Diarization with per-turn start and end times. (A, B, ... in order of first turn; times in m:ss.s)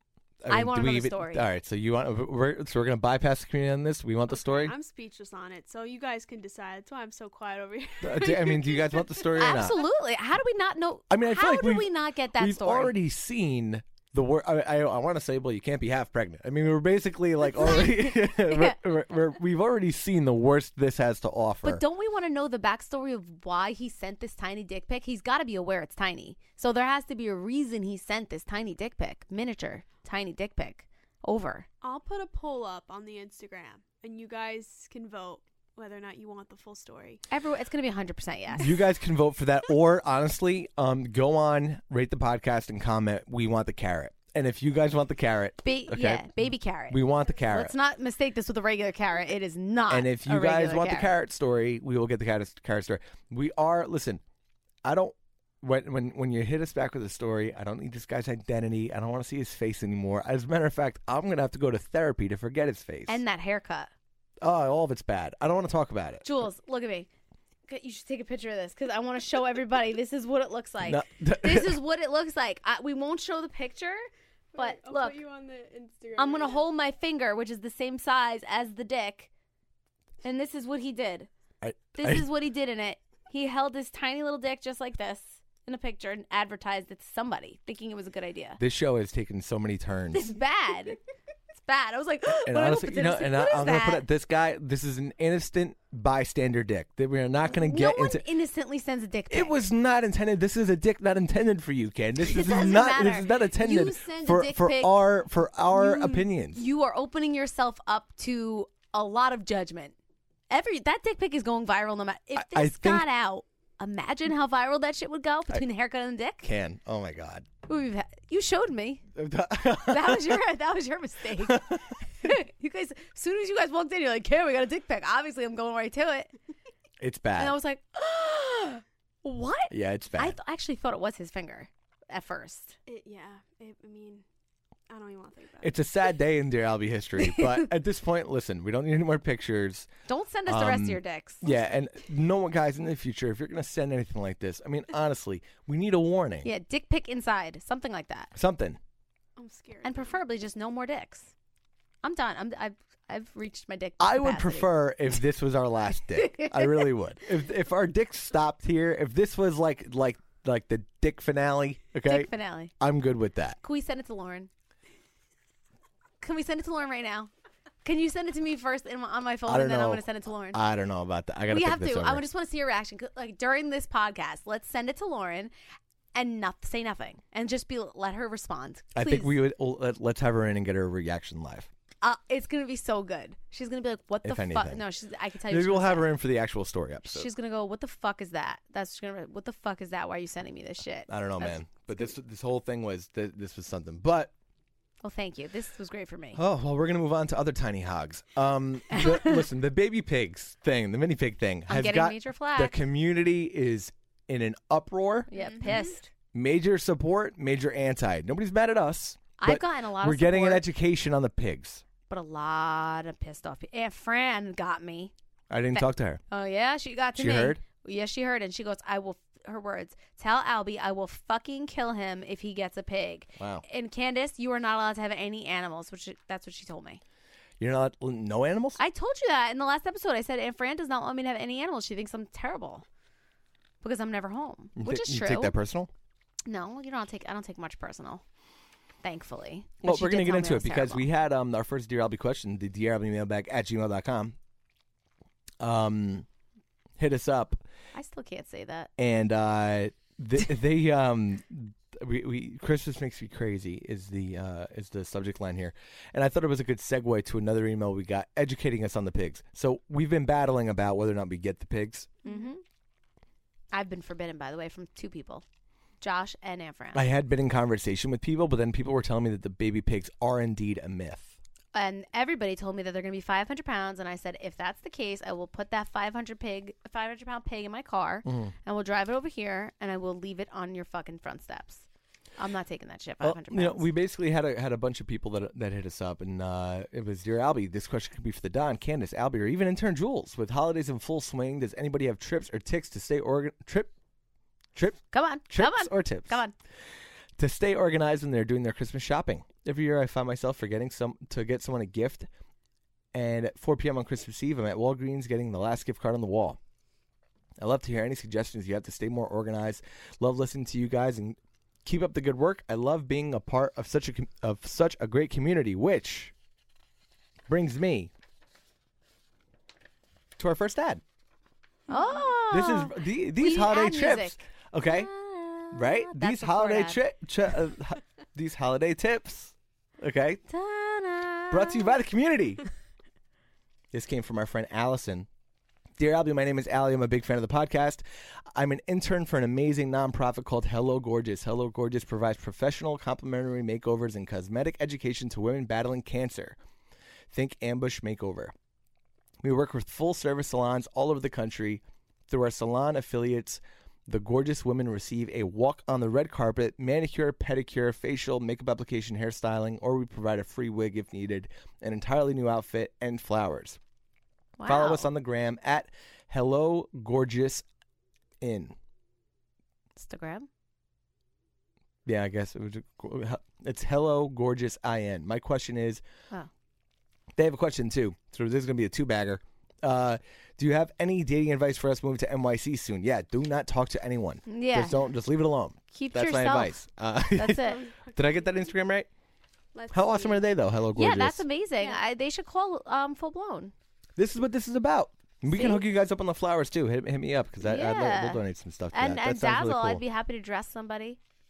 0:00.4-0:04.8 A
0:00.5-0:01.5 B
0:04.3-0:09.6 C
0:08.0-0:09.8 A
0:09.4-0:13.0 B
0:11.1-0:21.8 A
0:17.6-0:18.8 B
0:21.6-0:31.7 B
0:31.8-0:37.2 C
0:37.3-0:38.7 B
0:38.6-0:46.4 A
0:45.6-0:51.2 B
0:46.9-0:47.7 A
0:49.9-0:54.2 A
0:54.8-1:03.2 A
1:03.1-1:03.9 B
1:04.4-1:06.3 A
1:06.2-1:07.1 B
1:07.7-1:15.2 B
1:10.8-1:11.8 A
1:14.5-1:16.6 C
1:16.2-1:19.3 B
1:20.2-1:21.3 B
1:21.6-1:22.3 A
1:22.0-1:28.6 B
1:28.6-1:30.4 A
1:30.1-1:31.0 B
1:31.6-1:34.1 B
1:32.4-1:38.3 A
1:37.5-1:39.6 B
1:39.3-1:46.6 A
1:42.2-1:44.9 B
1:45.7-1:49.9 B
1:50.5-1:56.5 B
1:52.4-1:53.1 A
1:56.4-1:57.5 A
1:57.7-1:59.0 B
1:59.2-2:00.4 A
1:59.8-2:06.3 B
2:01.4-2:01.9 A
2:07.0-2:07.6 A
2:07.4-2:12.8 B
2:09.7-2:10.4 A
2:12.9-2:14.2 C
2:14.9-2:15.8 C
2:15.6-2:19.9 A
2:17.2-2:17.6 B
2:20.1-2:21.5 B
2:20.5-2:26.5 A
2:26.4-2:28.3 B
2:28.4-2:28.8 A
2:29.4-2:30.2 C
2:29.8-2:31.3 B
2:32.0-2:34.7 B
2:34.0-2:43.6 A
2:36.2-2:36.9 B
2:42.1-2:42.7 B
2:43.6-2:44.5 B
2:46.2-2:47.3 B
2:47.8-2:50.6 B
2:49.5-2:52.2 A
2:51.5-2:55.5 B
2:56.1-2:59.4 B
2:59.0-3:01.7 A
3:02.0-3:06.1 B
3:04.2-3:04.8 A
3:05.5-3:07.3 A
3:07.1-3:11.6 B
3:11.1-3:14.3 A
3:15.0-3:16.4 B
3:16.3-3:25.3 A
3:18.9-3:19.4 B
3:21.7-3:22.8 B
3:25.3-3:26.1 B
3:25.4-3:25.9 C
3:26.3-3:31.8 A
3:29.4-3:30.7 B
3:32.1-3:35.1 B
3:35.5-3:36.2 A
3:35.7-3:47.0 B
3:37.2-3:37.6 A
3:43.4-3:43.6 A
3:47.6-3:48.8 A
3:48.8-3:52.8 B
3:53.8-3:55.6 B
3:54.8-3:55.9 A
3:56.5-3:58.2 B
3:59.0-4:01.0 B
3:59.8-4:04.4 A
4:05.6-4:06.3 A
4:07.0-4:07.6 A
4:07.9-4:08.9 B
4:09.0-4:22.1 A
4:22.2-4:22.5 C
4:22.2-4:22.6 B
4:23.7-4:25.4 B
4:26.0-4:27.0 B
4:26.9-4:31.4 A
4:31.7-4:41.9 B
4:38.2-4:38.5 A
4:42.4-4:43.9 B
4:43.2-4:53.9 A
4:54.8-4:56.4 A
4:55.1-4:56.5 B
4:57.4-5:02.3 A
5:03.1-5:06.6 A
5:07.6-5:16.3 A
5:17.5-5:18.1 A
5:20.4-5:21.0 A
5:21.9-5:27.0 B
5:22.5-5:25.1 A
5:25.7-5:30.4 A
5:30.5-5:31.9 B
5:31.5-5:32.6 A
5:33.9-5:35.3 A
5:36.0-5:38.0 A
5:38.5-5:46.6 A
5:47.3-5:48.5 A
5:49.4-6:03.8 A
6:04.6-6:05.1 B
6:04.7-6:07.6 A
6:08.4-6:08.8 A
6:10.0-6:10.5 B
6:12.0-6:16.0 A
6:17.4-6:29.1 A
6:24.5-6:25.0 B
6:25.9-6:26.8 B
6:27.3-6:27.8 B
6:27.6-6:28.6 C
6:29.7-6:30.5 C
6:29.9-6:31.4 A
6:30.9-6:33.7 B
6:34.2-6:40.0 A
6:35.5-6:35.8 B
6:37.6-6:41.2 B